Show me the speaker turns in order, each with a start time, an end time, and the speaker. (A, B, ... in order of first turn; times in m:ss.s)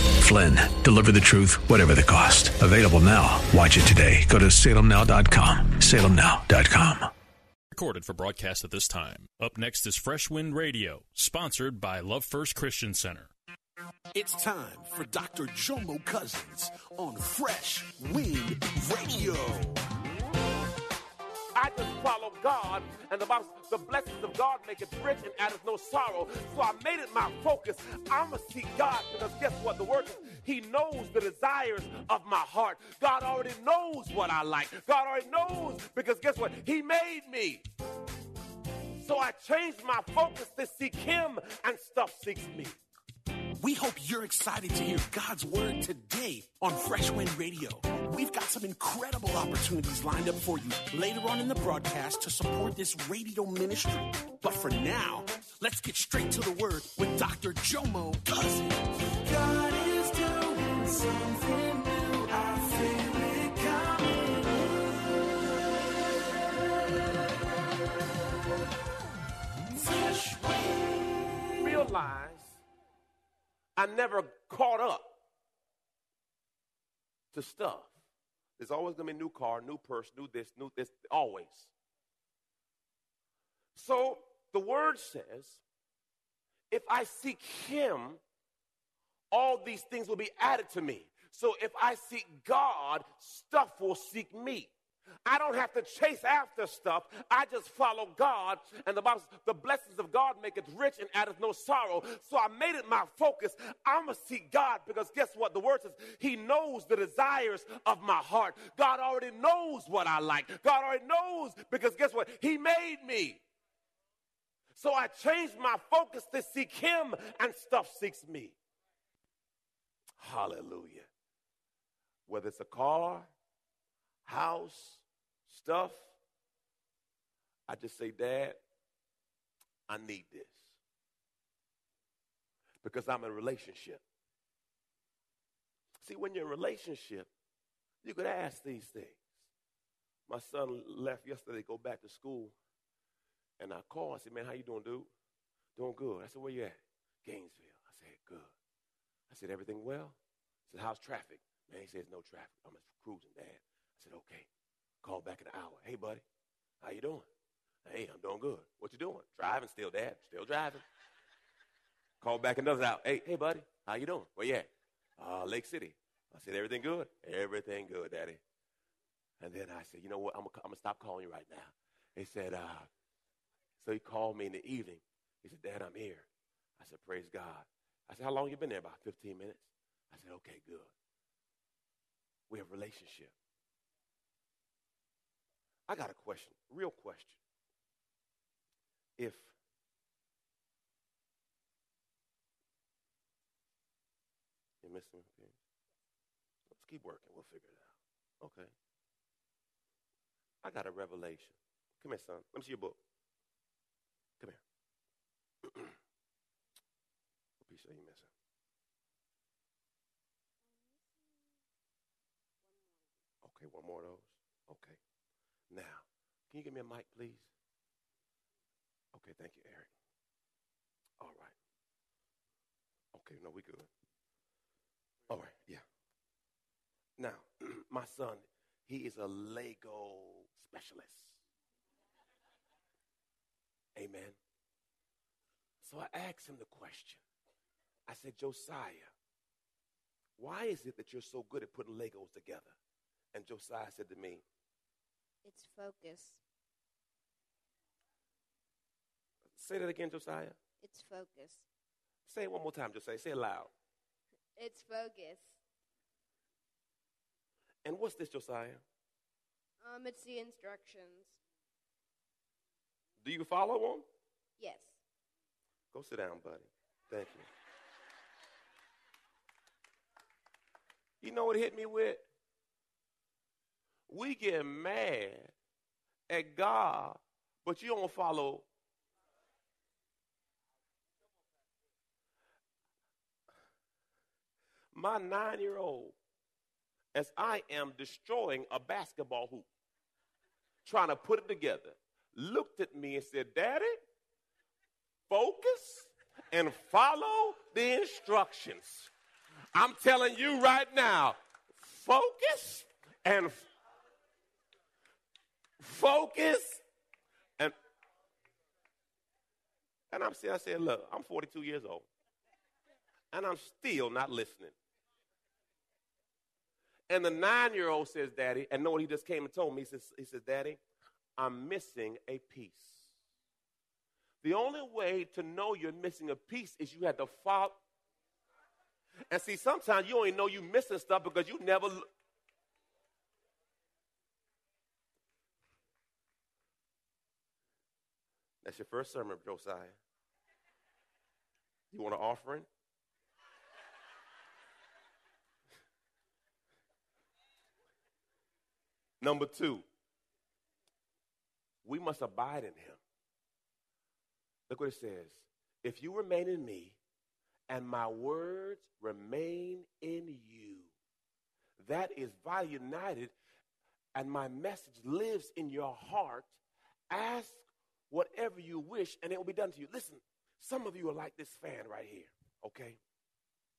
0:00.2-0:07.1 A
0:07.7-0:13.3 B
0:14.1-0:19.8 C
0:21.5-0:37.6 D
0:39.0-0:42.8 D
0:43.6-1:04.6 C
1:09.7-1:11.3 C
1:11.6-1:12.6 D
1:13.8-1:15.1 D
1:17.3-1:17.9 D
1:18.6-1:21.7 D
1:23.7-1:25.6 D
1:26.7-1:28.2 D
1:29.3-1:34.7 D
1:35.2-1:53.4 D
1:54.7-1:58.6 D
2:00.2-2:01.1 D
2:02.3-2:03.3 D
2:04.2-2:06.1 D
2:07.7-2:08.6 D
2:09.9-2:10.7 D
2:12.8-2:14.0 D
2:16.0-2:17.3 D
2:18.0-2:19.2 D
2:20.3-2:22.6 D
2:23.6-2:25.1 D
2:25.8-2:28.5 D
2:29.3-2:30.2 D
2:30.7-2:34.5 D
2:35.0-2:36.2 D
2:36.8-2:37.3 D
2:37.8-2:40.8 D
2:42.2-2:44.7 D
2:45.2-2:48.4 D
2:49.4-2:52.9 D
2:53.8-2:56.3 D
2:56.8-3:00.9 D
3:02.5-3:03.3 D
3:05.9-3:07.4 D
3:09.2-3:09.5 D
3:14.8-3:15.5 D
3:16.7-3:18.7 D
3:20.6-3:23.0 D
3:25.6-3:25.9 D
3:27.6-3:28.3 D
3:30.7-3:31.1 E
3:32.7-3:33.0 E
3:33.4-3:35.0 D
3:35.7-3:37.5 D
3:39.1-3:39.9 D
3:41.2-3:41.5 D
3:43.1-3:43.9 D
3:45.3-3:45.8 D
3:47.2-3:51.4 D
3:53.9-3:54.4 D
3:55.8-3:57.2 D
3:58.1-3:59.1 D
4:00.4-4:02.8 D
4:03.3-4:04.4 D
4:05.4-4:06.4 E
4:09.6-4:10.6 D
4:10.8-4:11.6 E
4:12.2-4:13.7 D
4:14.6-4:15.6 E
4:17.8-4:18.8 D
4:19.8-4:21.4 E
4:23.2-4:24.0 D
4:24.6-4:25.0 E
4:25.9-4:27.5 D
4:31.2-4:32.2 D
4:34.1-4:35.5 D
4:36.3-4:38.7 D
4:44.9-4:46.2 D
4:47.1-4:49.7 D
4:50.8-4:54.0 D
4:55.3-4:59.1 D
4:59.7-5:03.7 D
5:05.8-5:06.8 D
5:10.1-5:12.1 D
5:13.3-5:14.7 D
5:17.1-5:20.8 D
5:21.4-5:23.1 D
5:24.4-5:27.8 D
5:29.3-5:32.1 D
5:38.6-5:40.0 D
5:41.9-5:42.7 D
5:49.2-5:49.8 D
5:51.8-5:53.0 D
5:54.7-5:57.0 D
5:57.7-6:00.9 D
6:01.8-6:03.3 D
6:04.1-6:06.6 D
6:07.1-6:13.0 D